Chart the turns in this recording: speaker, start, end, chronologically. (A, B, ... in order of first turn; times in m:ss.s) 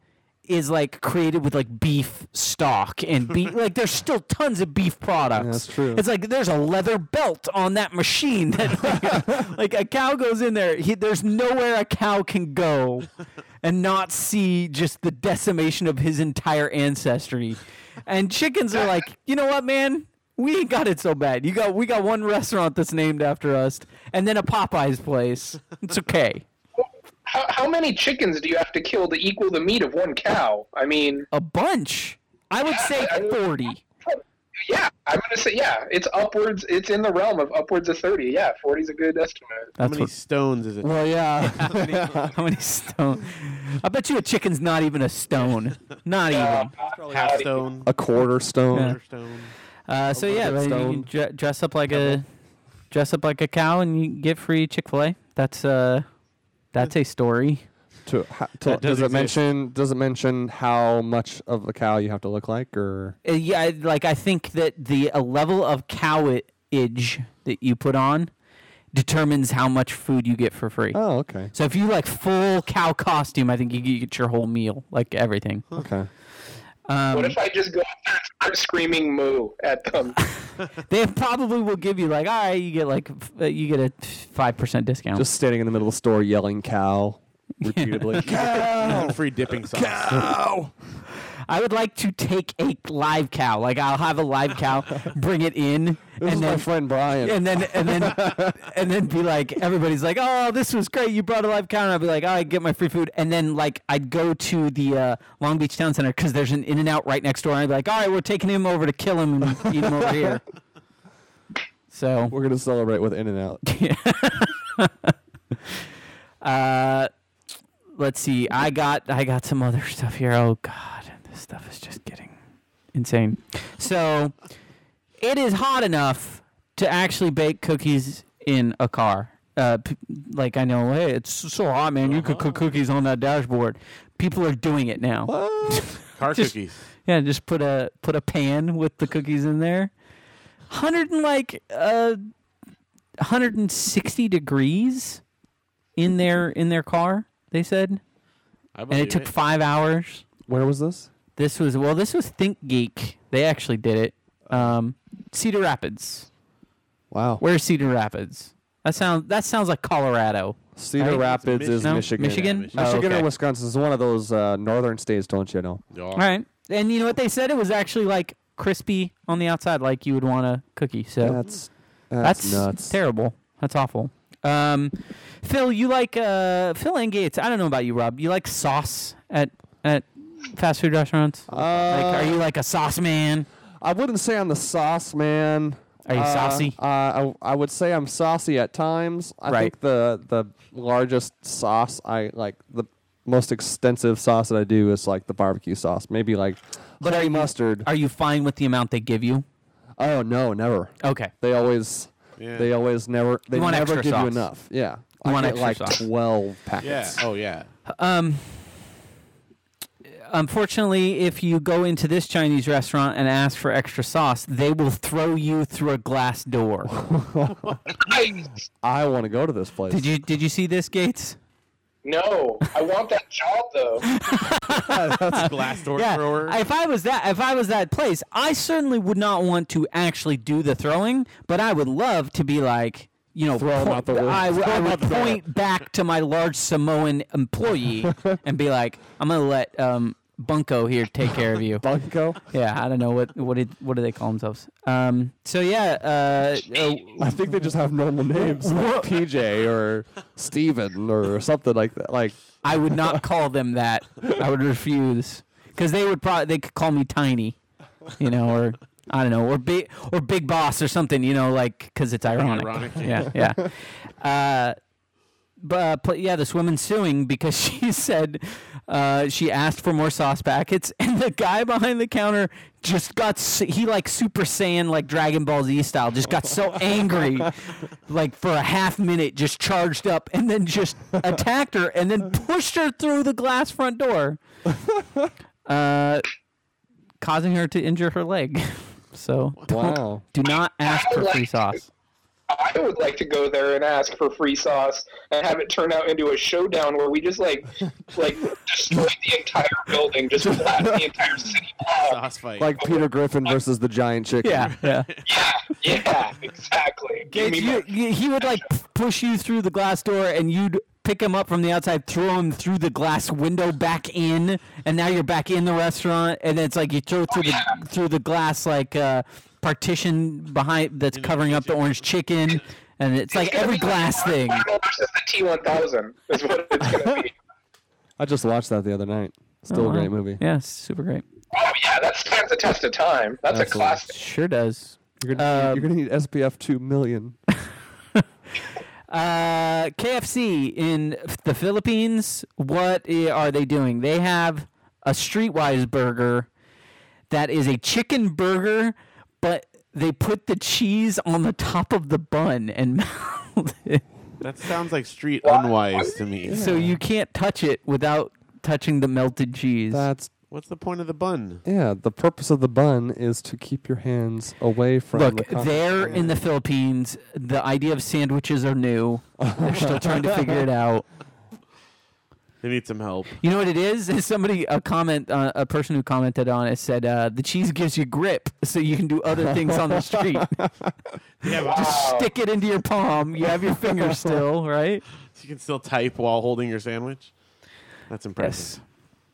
0:00.5-0:13.1 A
0:05.4-0:06.0 B
0:13.6-0:26.4 A
0:26.8-0:31.3 C
0:31.3-0:33.8 A
0:32.7-0:33.4 C
0:34.0-0:39.7 C
0:39.8-0:40.1 A
0:39.8-0:40.9 D
0:40.8-0:42.3 B
0:41.6-0:46.7 A
0:46.3-0:47.7 C
0:46.8-0:49.0 B
0:47.1-0:47.9 D
0:48.7-0:49.5 D
0:49.9-0:52.2 A
0:50.1-0:51.1 B
0:51.9-0:52.2 B
0:52.9-0:56.0 A
0:56.7-0:57.6 A
0:58.0-1:03.2 B
0:58.6-0:59.4 D
1:03.2-1:08.3 A
1:08.9-1:11.0 A
1:10.9-1:11.5 B
1:11.5-1:15.6 A
1:15.7-1:16.1 B
1:16.9-1:17.4 A
1:17.1-1:20.2 C
1:20.7-1:25.3 A
1:25.1-1:29.2 B
1:27.6-1:28.7 A
1:28.2-1:30.3 D
1:29.7-1:30.7 B
1:31.5-1:36.7 A
1:36.2-1:38.7 B
1:37.2-1:50.4 A
1:49.8-1:50.3 B
1:51.9-1:52.3 A
1:52.3-1:53.6 B
1:53.6-1:55.1 A
1:56.4-1:57.1 A
1:58.0-2:02.3 A
2:02.9-2:04.3 A
2:05.2-2:16.5 A
2:12.0-2:12.6 D
2:15.3-2:15.9 B
2:16.2-2:16.8 D
2:17.0-2:19.9 A
2:20.7-2:22.2 A
2:23.2-2:25.2 A
2:26.0-2:28.0 A
2:28.7-2:29.3 D
2:28.9-2:30.2 A
2:30.5-2:31.1 B
2:31.4-2:36.3 A
2:34.5-2:34.7 B
2:37.1-2:37.4 B
2:37.4-2:41.2 A
2:40.8-2:45.8 B
2:41.1-2:43.2 D
2:41.8-2:43.3 A
2:45.9-2:46.3 D
2:46.2-2:51.4 A
2:51.2-2:53.0 B
2:52.2-3:03.5 A
3:01.5-3:02.4 B
3:03.8-3:17.9 B
3:06.0-3:06.7 A
3:17.0-3:19.4 A
3:20.0-3:27.2 B
3:21.0-3:21.3 A
3:22.4-3:22.7 D
3:23.5-3:24.4 A
3:25.2-3:26.0 A
3:26.8-3:27.7 D
3:27.9-3:28.8 A
3:30.3-3:36.9 A
3:36.9-3:37.8 B
3:37.6-3:37.9 D
3:38.0-3:38.6 C
3:38.8-3:40.1 B
3:39.9-3:41.4 A
3:42.0-3:44.1 C
3:44.0-4:01.8 A
3:44.7-3:45.5 B
3:45.2-3:46.6 D
3:53.6-3:55.4 B
3:58.0-3:58.4 B
4:01.8-4:02.4 B
4:02.5-4:07.3 A
4:07.0-4:13.2 B
4:08.3-4:09.2 A
4:12.6-4:17.6 A
4:18.2-4:24.8 A
4:22.2-4:23.4 D
4:23.3-4:23.6 B
4:25.6-4:37.5 A
4:38.1-4:44.4 A
4:44.7-4:45.3 B
4:45.6-4:46.2 A
4:47.2-4:51.9 A
4:49.7-4:50.2 B
4:50.8-4:51.8 C
4:52.5-5:02.2 C
5:00.4-5:01.1 B
5:01.9-5:02.7 D
5:02.6-5:04.7 B
5:02.8-5:03.1 C
5:04.4-5:05.1 A
5:04.6-5:05.5 D
5:05.2-5:07.9 C
5:07.3-5:24.6 A
5:17.3-5:17.7 C
5:21.1-5:22.0 D
5:23.3-5:27.3 C
5:28.2-5:30.4 B
5:29.7-5:31.2 A
5:31.5-5:34.1 C
5:33.5-5:34.0 B
5:34.1-5:35.9 A
5:35.2-5:37.4 B
5:39.1-5:46.5 A
5:47.3-5:54.0 A
5:54.4-5:56.6 D
5:55.4-5:56.2 C
5:56.4-5:57.0 B
5:56.5-6:00.1 A
5:59.9-6:00.3 B
6:00.5-6:01.6 D
6:01.6-6:06.4 B
6:05.1-6:11.0 A
6:09.4-6:10.6 B
6:12.6-6:13.3 D
6:13.4-6:20.5 A
6:19.4-6:20.9 B
6:21.4-6:22.0 D
6:21.6-6:22.3 C
6:21.7-6:25.0 A
6:23.8-6:24.4 B
6:25.3-6:27.3 D
6:28.1-6:28.8 D
6:28.4-6:28.8 A